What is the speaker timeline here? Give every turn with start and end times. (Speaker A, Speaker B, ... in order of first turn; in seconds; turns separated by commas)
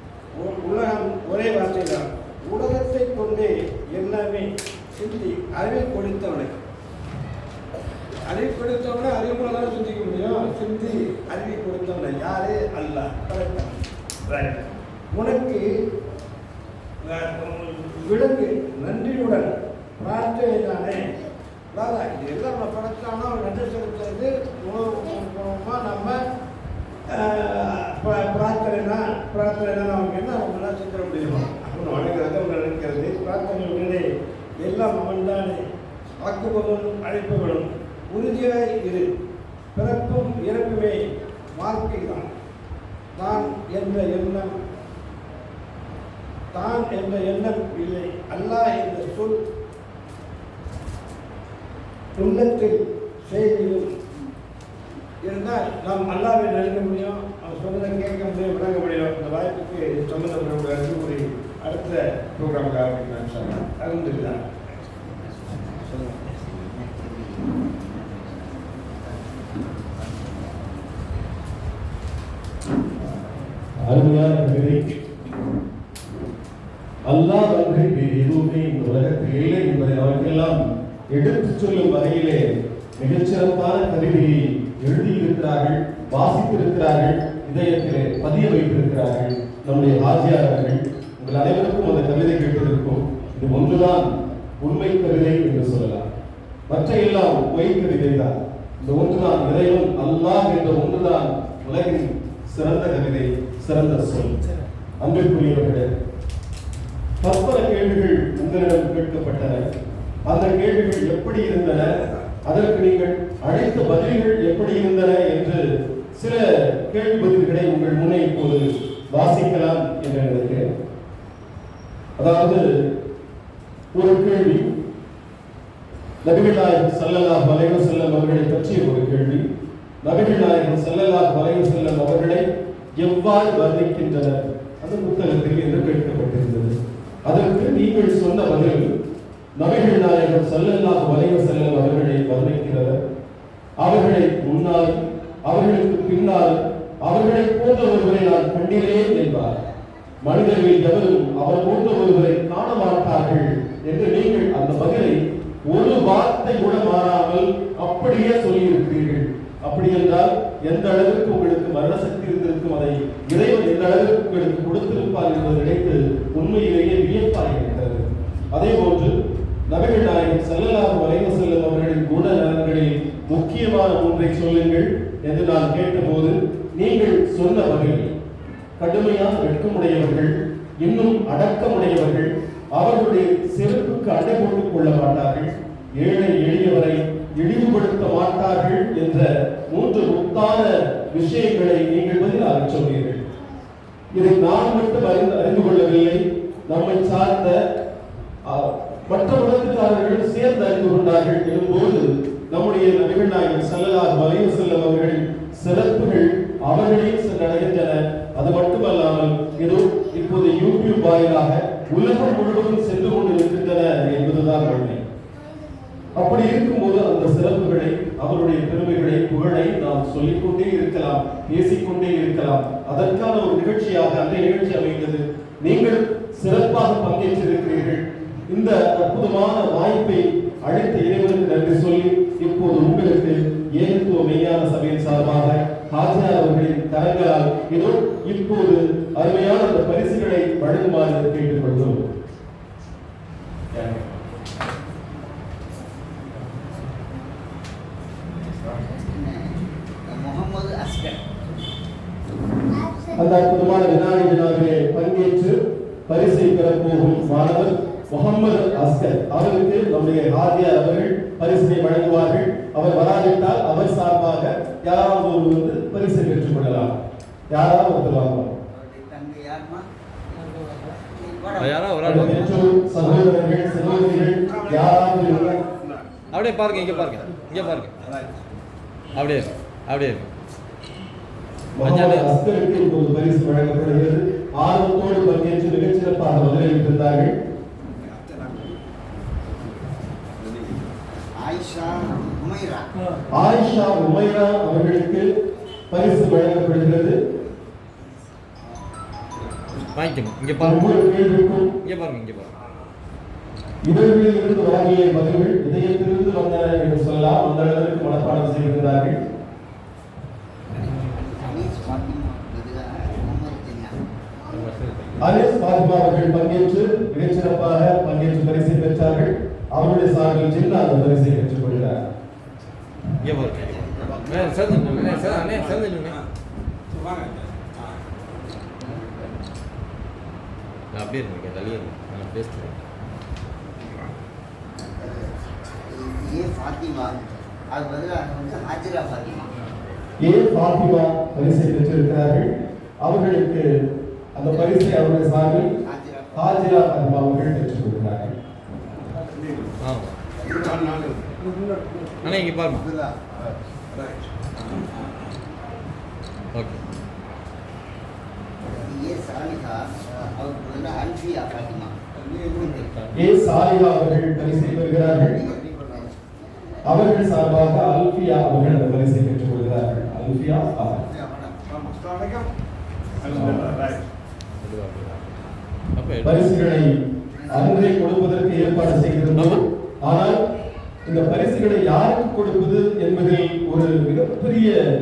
Speaker A: 0.3-6.6, Speaker A: 8.3-15.7, Speaker A: 17.0-19.5, Speaker A: 20.0-21.1, Speaker A: 21.7-26.2, Speaker A: 27.1-34.0, Speaker A: 34.6-35.6, Speaker A: 36.2-39.1, Speaker A: 39.7-41.0, Speaker A: 41.5-42.3, Speaker A: 43.1-44.5, Speaker A: 46.5-49.4, Speaker A: 52.1-53.9, Speaker A: 55.2-64.6, Speaker B: 65.1-71.1, Speaker A: 65.9-66.3, Speaker C: 73.8-74.9, Speaker C: 77.1-94.1, Speaker C: 94.6-96.0, Speaker C: 96.7-104.4, Speaker C: 105.0-105.9, Speaker C: 107.2-109.6, Speaker C: 110.3-111.9, Speaker A: 111.9-112.2, Speaker C: 112.4-115.6, Speaker C: 116.1-120.7, Speaker C: 122.2-122.6, Speaker C: 123.9-124.7, Speaker C: 126.2-129.4, Speaker C: 130.0-132.4, Speaker C: 133.0-136.7, Speaker C: 137.3-138.9, Speaker C: 139.6-143.0, Speaker C: 143.8-149.5, Speaker C: 150.2-169.1, Speaker C: 169.7-178.1, Speaker C: 178.8-193.3, Speaker C: 194.1-197.6, Speaker C: 198.4-215.0, Speaker C: 216.1-242.0, Speaker C: 243.7-244.2, Speaker B: 248.6-249.5, Speaker B: 250.1-251.2, Speaker C: 253.1-255.6, Speaker C: 256.1-266.9, Speaker C: 267.5-268.6, Speaker B: 268.7-269.9, Speaker B: 270.4-272.7, Speaker D: 271.6-272.7, Speaker C: 272.0-275.6, Speaker A: 274.1-276.1, Speaker D: 276.3-277.9, Speaker A: 276.7-278.4, Speaker D: 279.1-280.3, Speaker C: 281.8-287.3, Speaker D: 281.8-282.3, Speaker A: 287.9-290.9, Speaker B: 291.4-292.9, Speaker C: 293.3-295.3, Speaker C: 295.9-297.2, Speaker D: 299.9-300.9, Speaker C: 300.6-301.7, Speaker D: 301.8-302.5, Speaker C: 303.9-309.2, Speaker B: 310.7-313.9, Speaker D: 314.5-315.2, Speaker C: 315.2-322.0, Speaker D: 323.2-326.2, Speaker B: 323.6-324.4, Speaker A: 323.9-326.3, Speaker A: 326.9-328.0, Speaker B: 328.7-329.3, Speaker D: 330.9-332.8, Speaker B: 334.8-335.3, Speaker B: 335.9-337.2, Speaker B: 337.7-339.5, Speaker C: 340.2-342.5, Speaker C: 343.0-343.6, Speaker C: 344.3-345.7, Speaker B: 345.8-346.6, Speaker C: 346.4-348.3, Speaker A: 348.9-349.8, Speaker D: 349.8-350.2, Speaker A: 350.4-352.5, Speaker B: 350.4-351.1, Speaker D: 352.2-352.9, Speaker A: 353.9-355.3, Speaker D: 356.5-356.8, Speaker B: 358.7-361.9, Speaker A: 362.1-362.9, Speaker D: 362.8-363.1, Speaker C: 363.1-365.3, Speaker B: 364.9-366.8, Speaker C: 366.9-371.0, Speaker B: 370.8-371.6, Speaker A: 371.7-372.5, Speaker A: 373.2-374.1, Speaker D: 374.6-376.5, Speaker C: 376.2-377.0, Speaker B: 377.4-377.7, Speaker C: 377.5-380.4, Speaker D: 379.3-379.6, Speaker C: 381.1-384.8